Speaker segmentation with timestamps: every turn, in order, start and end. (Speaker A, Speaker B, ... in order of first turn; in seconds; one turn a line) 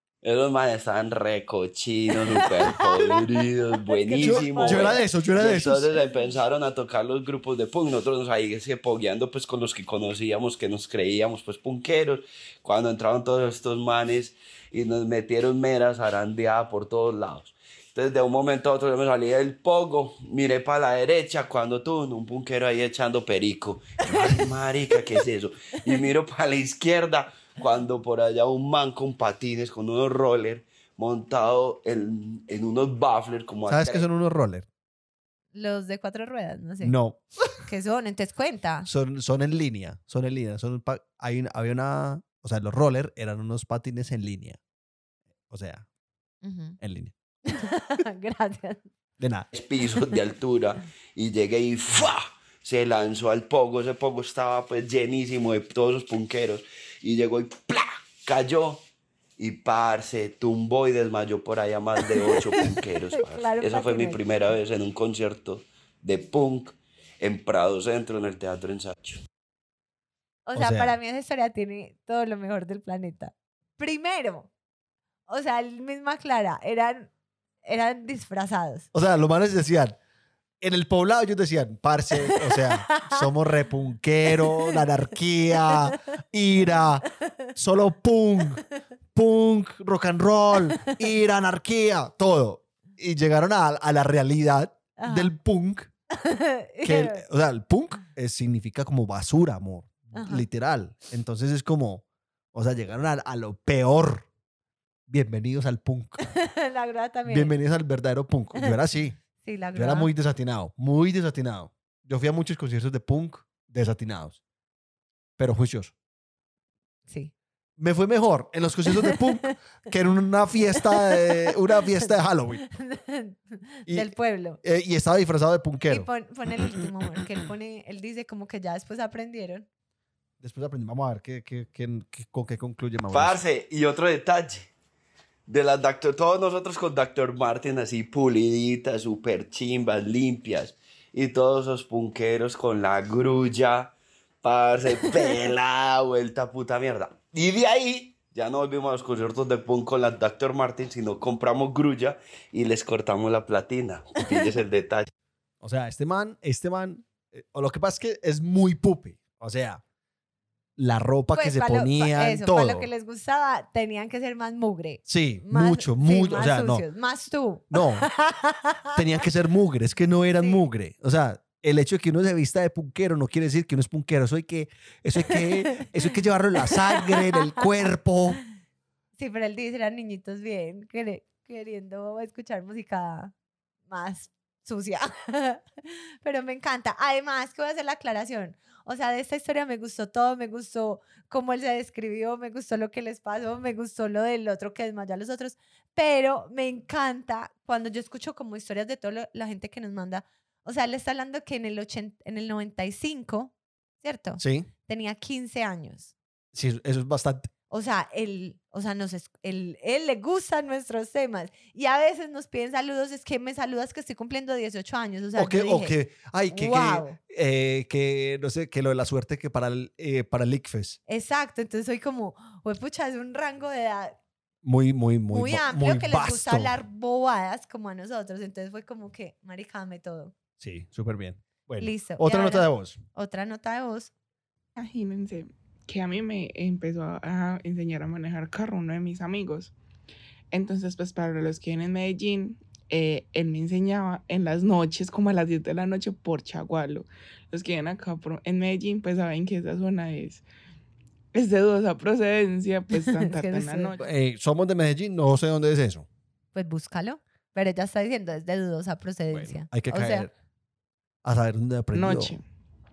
Speaker A: 0.2-34.0
Speaker B: 2.2-3.1
Speaker B: 3.7-5.0
Speaker C: 4.2-6.0
Speaker B: 6.0-6.3
Speaker C: 33.7-34.7
Speaker B: 35.5-36.9
Speaker C: 36.8-37.6
Speaker B: 37.7-38.9
Speaker C: 38.9-44.6
Speaker C: 45.5-45.9
Speaker B: 46.4-46.8
Speaker C: 46.8-47.1
Speaker B: 47.5-48.9
Speaker C: 49.2-49.5
Speaker A: 49.5-58.8
Speaker A: 59.4-69.2
Speaker B: 63.1-64.2
Speaker B: 70.5-74.5
Speaker C: 70.5-70.9
Speaker B: 75.3-77.1
Speaker B: 77.6-78.9
Speaker C: 78.9-80.0
Speaker C: 80.6-95.9
Speaker B: 82.3-83.3
Speaker B: 84.3-84.8
Speaker B: 85.7-86.0
Speaker B: 87.2-87.5
Speaker B: 90.6-91.1
Speaker B: 95.0-95.3
Speaker B: 96.1-97.2
Speaker C: 96.8-104.3
Speaker B: 100.1-100.5
Speaker C: 105.1-106.3
Speaker B: 106.2-107.5
Speaker C: 107.3-109.2
Speaker B: 109.4-110.1
Speaker C: 109.7-114.4
Speaker C: 115.4-115.9
Speaker B: 117.1-117.3
Speaker C: 117.8-122.6
Speaker B: 118.9-119.5
Speaker B: 120.8-122.0
Speaker B: 122.6-124.6
Speaker C: 123.9-124.1
Speaker C: 124.6-126.1
Speaker B: 125.8-129.7
Speaker C: 130.4-133.4
Speaker A: 133.1-134.7
Speaker A: 135.5-155.1
Speaker C: 155.6-159.8
Speaker C: 160.8-162.9
Speaker B: 161.3-169.0
Speaker C: 165.1-166.8
Speaker C: 167.7-168.1
Speaker C: 168.9-178.4
Speaker B: 175.2-176.1
Speaker B: 176.6-177.7
Speaker B: 179.2-183.3
Speaker B: 183.9-206.1
Speaker C: 204.4-204.7
Speaker C: 206.5-207.5
Speaker B: 207.7-215.9
Speaker C: 215.3-221.0
Speaker B: 216.5-217.2
Speaker B: 221.1-224.2
Speaker C: 224.6-226.7
Speaker B: 225.3-230.3
Speaker C: 230.6-233.0
Speaker B: 231.8-234.1
Speaker D: 234.8-239.7
Speaker D: 240.5-250.4
Speaker D: 251.3-254.1
Speaker B: 253.0-253.9
Speaker C: 254.0-256.1
Speaker B: 256.5-260.3
Speaker C: 259.3-260.3
Speaker C: 261.2-262.4
Speaker D: 261.9-262.4